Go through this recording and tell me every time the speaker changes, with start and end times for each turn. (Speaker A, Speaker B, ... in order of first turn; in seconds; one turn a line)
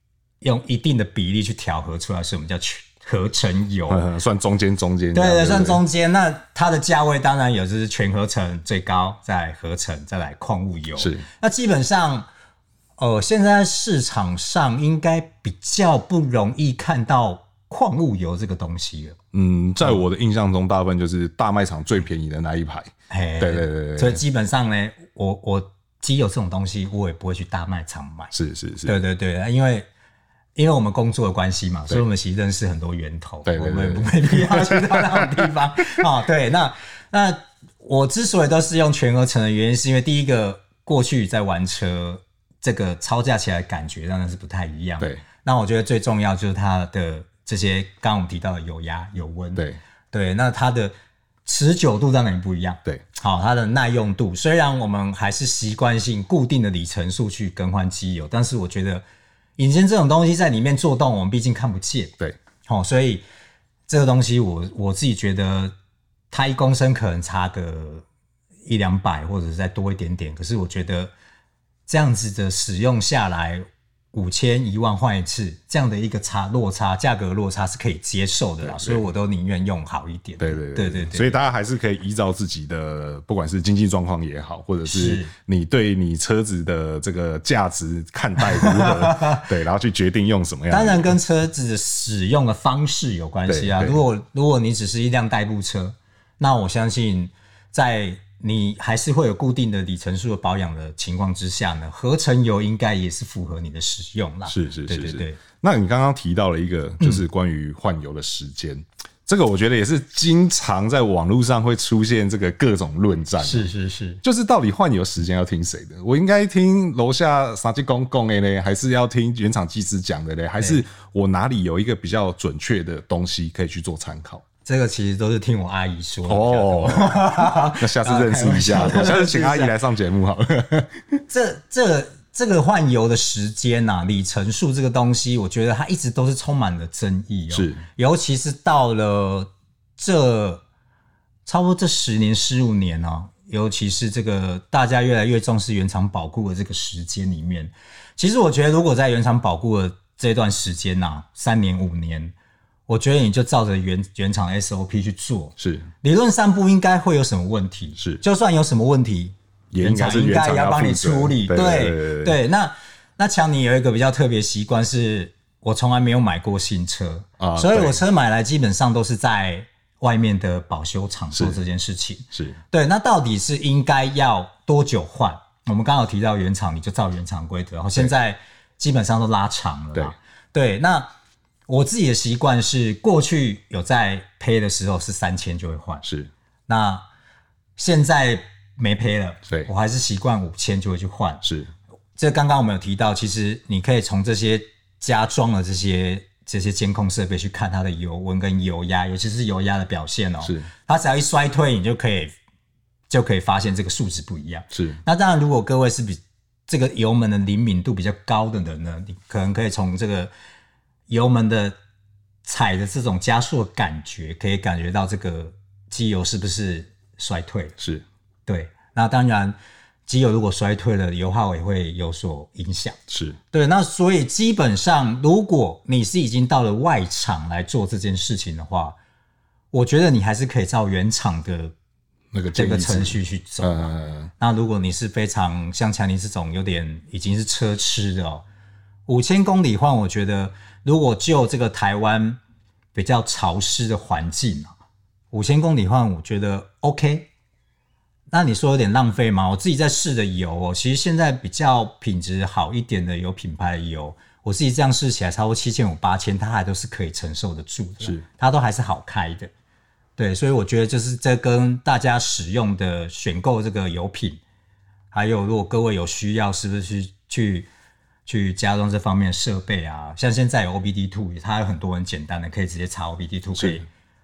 Speaker A: 0.4-4.0
Speaker B: 3.9-5.8
Speaker A: 5.1-12.3
Speaker B: 11.0-11.2
Speaker A: 13.0-19.2
Speaker B: 19.3-24.2
Speaker A: 23.1-28.3
Speaker B: 28.3-29.0
Speaker A: 28.8-29.9
Speaker A: 30.6-50.9
Speaker B: 33.5-35.5
Speaker A: 51.5-59.0
Speaker A: 59.6-63.2
Speaker A: 63.9-65.7
Speaker A: 66.3-68.0
Speaker A: 68.7-71.1
Speaker A: 71.9-81.4
Speaker B: 78.6-79.0
Speaker B: 80.4-91.2
Speaker A: 84.8-85.3
Speaker A: 88.4-89.5
Speaker A: 90.7-105.4
Speaker B: 93.5-94.0
Speaker B: 104.5-113.7
Speaker A: 113.4-114.2
Speaker B: 114.2-124.4
Speaker A: 124.6-129.7
Speaker B: 126.2-131.2
Speaker A: 131.3-140.6
Speaker B: 137.5-137.8
Speaker A: 141.4-152.3
Speaker A: 152.9-181.1
Speaker B: 155.6-155.9
Speaker B: 159.7-162.3
Speaker B: 167.4-168.0
Speaker B: 171.3-171.6
Speaker B: 172.3-172.6
Speaker A: 181.7-186.1
Speaker B: 186.0-186.3
Speaker A: 186.7-187.1
Speaker A: 187.8-191.4
Speaker B: 191.4-191.7
Speaker A: 192.2-202.3
Speaker B: 200.4-200.7
Speaker A: 203.1-210.3
Speaker B: 204.7-205.0
Speaker A: 211.1-211.8
Speaker A: 212.4-217.8
Speaker B: 217.8-218.0
Speaker A: 218.5-219.6
Speaker A: 220.1-223.0
Speaker B: 223.1-223.4
Speaker A: 223.5-228.9
Speaker A: 229.7-231.7
Speaker B: 232.3-234.3
Speaker A: 232.5-238.4
Speaker A: 239.1-242.4
Speaker A: 242.9-244.7
Speaker A: 245.3-247.3
Speaker A: 248.3-259.5
Speaker A: 260.2-264.4
Speaker A: 265.1-267.7
Speaker A: 268.3-273.9
Speaker B: 273.6-273.8